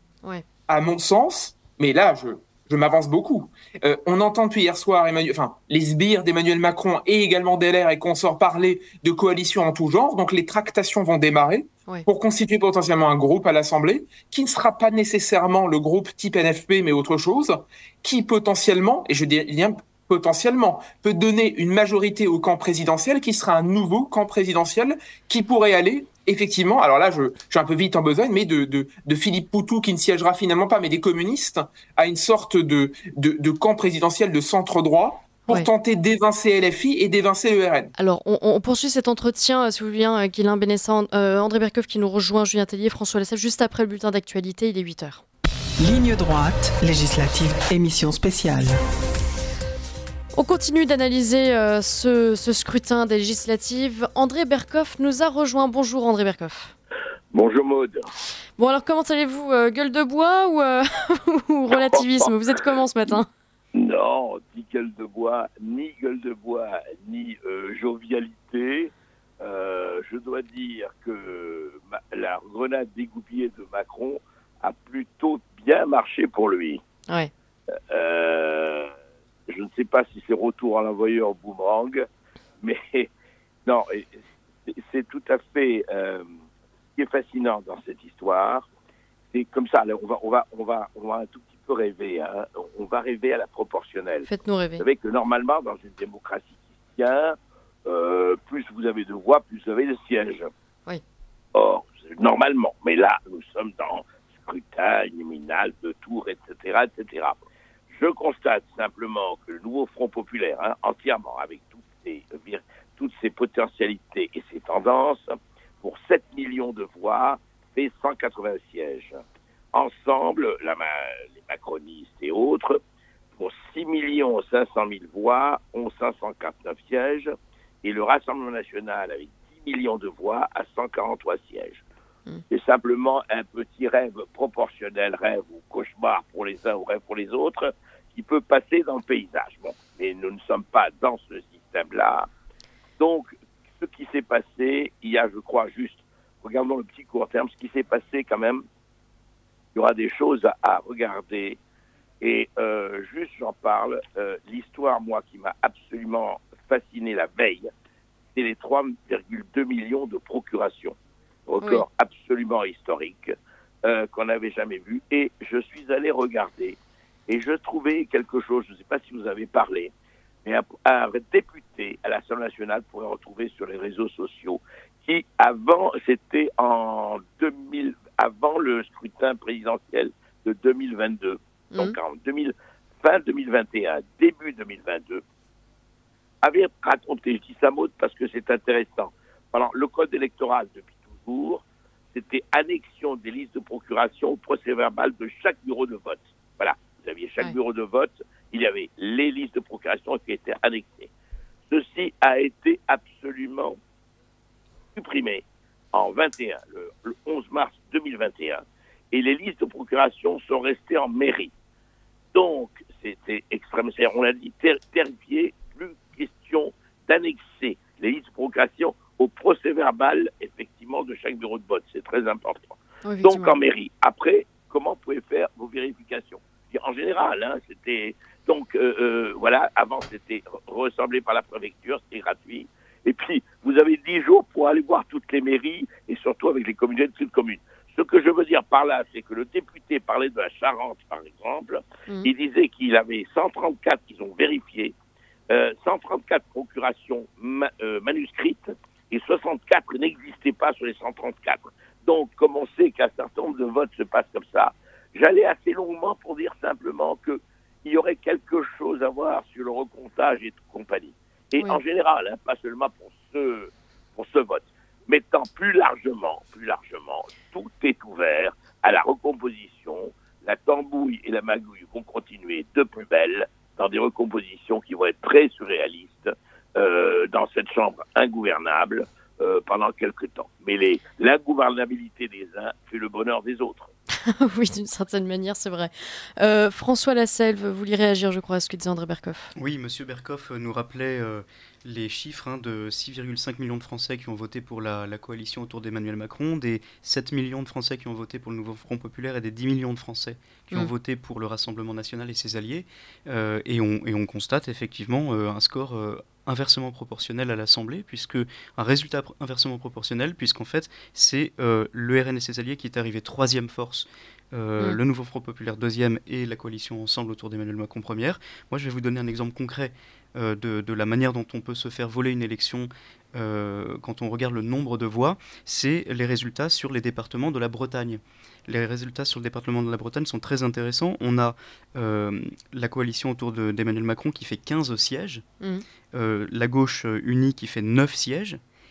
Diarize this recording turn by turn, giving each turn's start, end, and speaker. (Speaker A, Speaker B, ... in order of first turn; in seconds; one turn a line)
Speaker A: 0.7-37.9
Speaker B: 38.0-45.2
Speaker C: 45.8-48.8
Speaker B: 50.4-56.7
Speaker D: 57.3-58.1
Speaker B: 58.6-63.3
Speaker D: 61.9-62.3
Speaker D: 63.7-76.8
Speaker D: 77.9-78.9
Speaker D: 79.5-82.0
Speaker D: 82.6-83.1
Speaker D: 83.7-84.1
Speaker D: 84.7-86.3
Speaker D: 87.0-88.7
Speaker D: 89.3-94.3
Speaker B: 94.3-94.8
Speaker D: 94.8-100.5
Speaker D: 101.5-119.2
Speaker D: 119.7-122.8
Speaker D: 123.4-127.3
Speaker D: 127.8-131.8
Speaker D: 132.5-142.3
Speaker D: 143.0-148.6
Speaker D: 149.7-151.6
Speaker D: 152.2-157.7
Speaker D: 158.3-160.9
Speaker D: 161.5-163.3
Speaker D: 163.8-169.9
Speaker D: 170.4-185.2
Speaker D: 186.4-201.1
Speaker D: 201.7-203.8
Speaker D: 204.9-211.5
Speaker D: 212.3-244.9
Speaker B: 223.0-223.5
Speaker D: 245.5-283.9
Speaker B: 284.2-289.5
Speaker E: 289.6-335.4
Speaker E: 336.1-338.6